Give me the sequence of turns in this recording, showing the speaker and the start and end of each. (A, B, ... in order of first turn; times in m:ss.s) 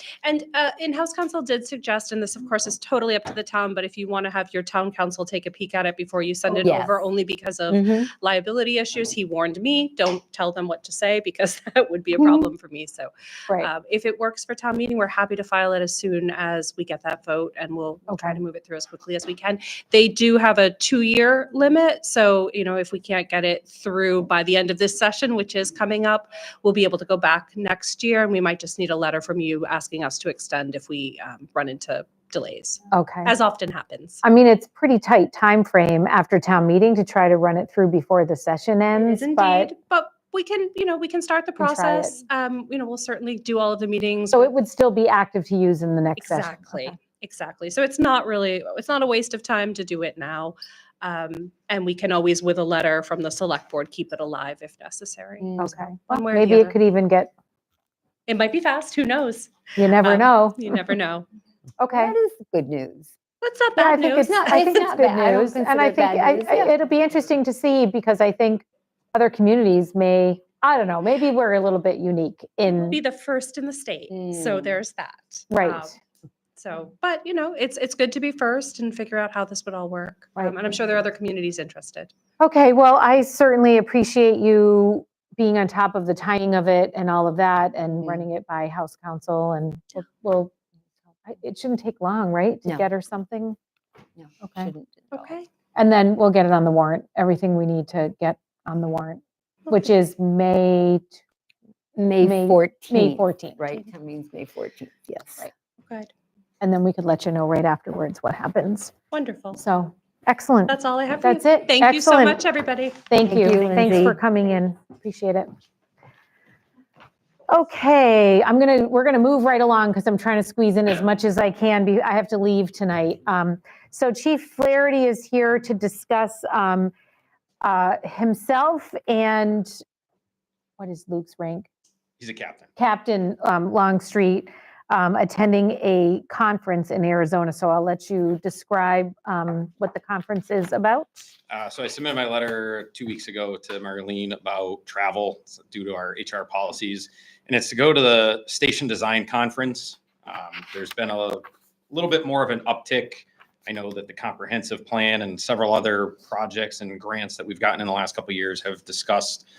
0:00.2-0:34.2 A
0:06.6-0:07.0 B
0:07.7-0:08.1 B
0:18.1-0:18.4 C
0:32.9-0:33.3 C
0:34.2-0:39.7 C
0:39.0-0:44.5 A
0:41.6-0:42.2 C
0:44.3-0:46.9 C
0:46.2-0:55.5 A
0:55.4-0:55.7 B
0:55.6-0:57.3 C
0:56.1-0:56.8 A
0:58.3-1:01.2 A
0:59.8-1:00.6 C
1:01.8-1:02.1 C
1:01.9-1:03.1 B
1:03.4-1:04.9 A
1:03.8-1:13.0 C
1:04.2-1:06.7 B
1:12.7-1:16.0 A
1:15.5-1:15.9 C
1:16.6-1:22.1 A
1:22.4-1:30.5 C
1:31.2-1:33.6 C
1:34.2-1:35.4 B
1:34.4-1:34.7 C
1:35.1-1:35.5 A
1:35.7-1:41.2 C
1:42.0-1:45.5 B
1:42.2-1:43.6 C
1:46.6-1:48.9 C
1:49.1-1:49.6 A
1:49.6-1:52.4 C
1:50.7-1:53.0 A
1:53.1-1:55.5 C
1:53.3-1:54.2 B
1:57.5-2:06.9 C
2:07.6-2:09.8 C
2:10.8-2:11.7 C
2:12.2-2:12.7 D
2:12.8-2:21.2 C
2:21.5-2:39.4 D